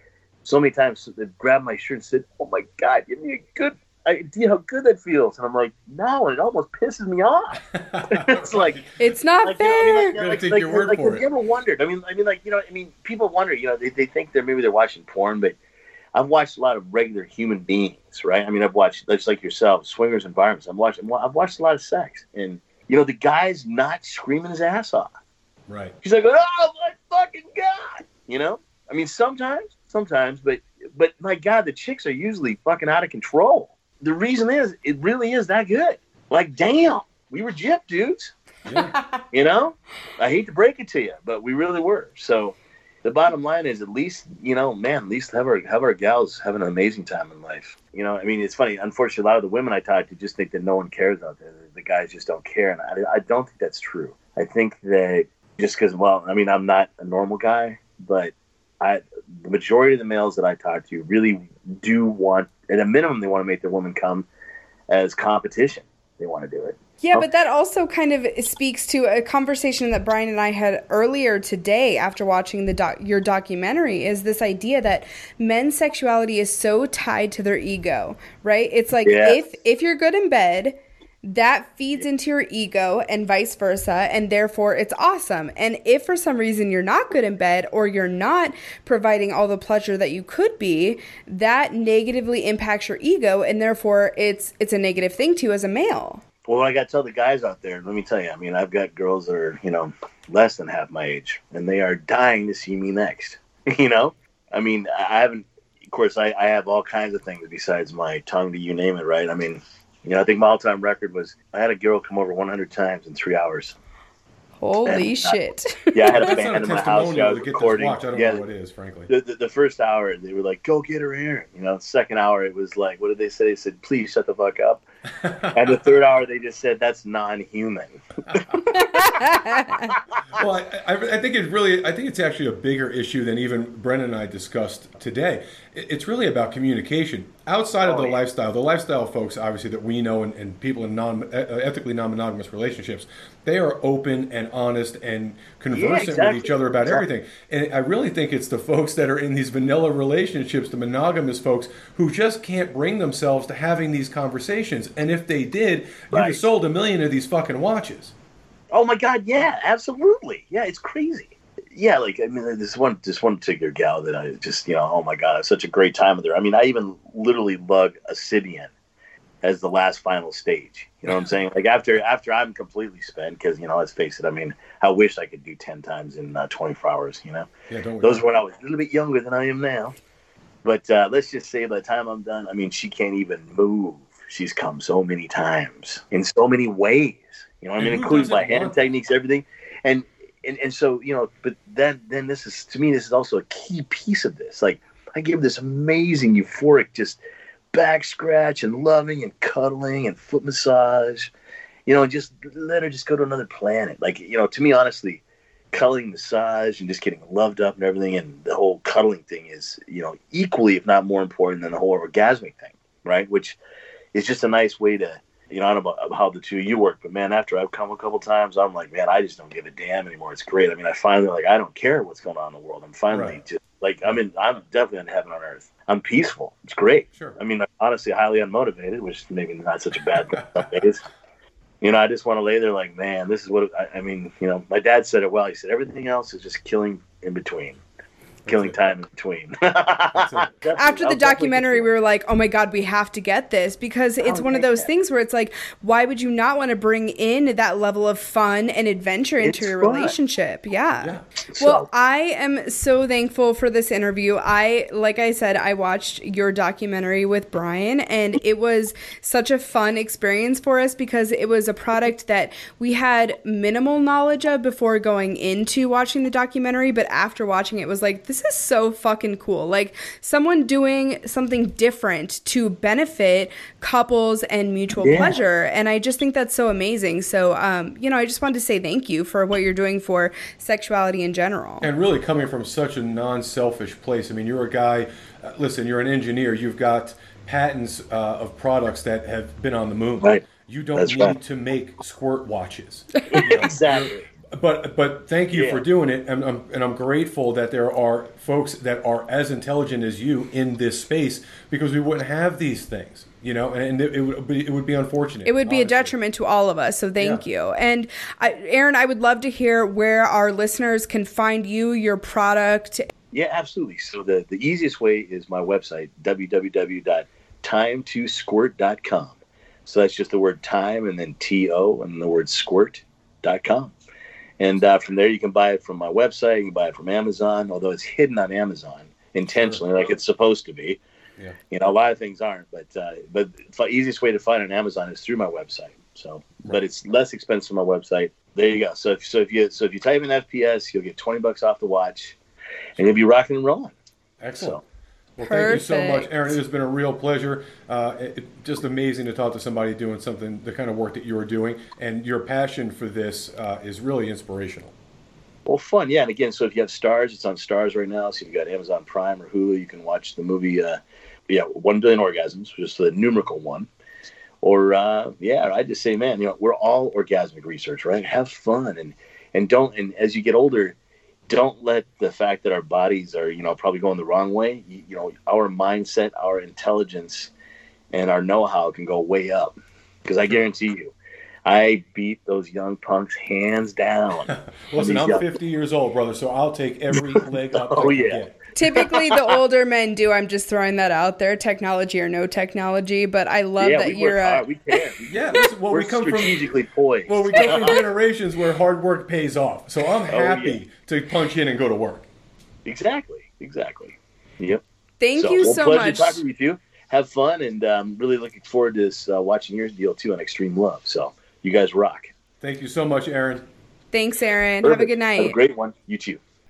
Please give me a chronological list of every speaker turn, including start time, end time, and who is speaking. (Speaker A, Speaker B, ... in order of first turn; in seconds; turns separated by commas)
Speaker A: 0.4-8.8, Speaker B: 7.7-8.8, Speaker C: 9.0-10.1, Speaker A: 9.4-15.6, Speaker B: 10.2-11.2, Speaker A: 16.1-25.1, Speaker B: 25.7-25.9, Speaker A: 26.0-38.3, Speaker B: 38.6-38.9, Speaker C: 38.8-39.2, Speaker A: 39.3-64.3, Speaker A: 64.9-67.3, Speaker C: 67.0-96.2, Speaker A: 79.0-79.4, Speaker A: 96.5-113.8, Speaker C: 114.6-116.3, Speaker A: 114.8-115.4, Speaker A: 115.9-118.4, Speaker B: 116.1-119.1, Speaker A: 119.1-124.8, Speaker B: 125.2-126.0, Speaker A: 125.5-128.5, Speaker C: 128.7-129.9, Speaker A: 129.9-130.4, Speaker B: 130.3-158.1, Speaker A: 137.8-138.2, Speaker A: 145.7-147.0, Speaker A: 156.1-156.4, Speaker A: 158.7-168.7, Speaker A: 169.4-177.5, Speaker B: 177.7-178.2, Speaker A: 178.0-179.9, Speaker A: 180.6-197.2, Speaker B: 187.8-188.8, Speaker A: 197.7-201.3, Speaker A: 201.8-213.6, Speaker A: 214.1-231.0, Speaker B: 223.1-223.4, Speaker B: 230.1-230.7, Speaker A: 231.8-237.8, Speaker B: 238.4-239.0, Speaker A: 238.5-241.9, Speaker B: 240.1-240.5, Speaker C: 240.8-281.9, Speaker A: 244.2-244.9, Speaker A: 249.4-250.1, Speaker A: 251.5-251.9, Speaker A: 275.0-275.4, Speaker B: 281.8-306.1, Speaker A: 290.9-291.3, Speaker A: 293.3-294.2, Speaker A: 295.5-295.8, Speaker C: 305.4-313.1, Speaker A: 313.3-323.9, Speaker A: 324.6-331.0, Speaker B: 329.5-329.8, Speaker A: 331.7-342.4, Speaker A: 343.0-343.9, Speaker B: 344.4-344.8, Speaker B: 345.4-354.9, Speaker C: 345.4-346.6, Speaker A: 355.6-363.9, Speaker A: 364.6-370.9, Speaker A: 371.5-377.5, Speaker A: 378.1-381.1, Speaker A: 381.6-385.4, Speaker B: 384.5-388.6, Speaker A: 387.2-388.4, Speaker C: 388.7-395.0, Speaker A: 388.9-389.3, Speaker A: 393.8-397.9, Speaker B: 395.3-396.7, Speaker B: 397.3-402.3, Speaker C: 397.6-398.0, Speaker A: 400.3-400.8, Speaker A: 402.8-404.8, Speaker C: 405.2-406.4, Speaker A: 405.4-412.3, Speaker B: 412.6-413.6, Speaker C: 414.1-415.6, Speaker A: 414.8-416.4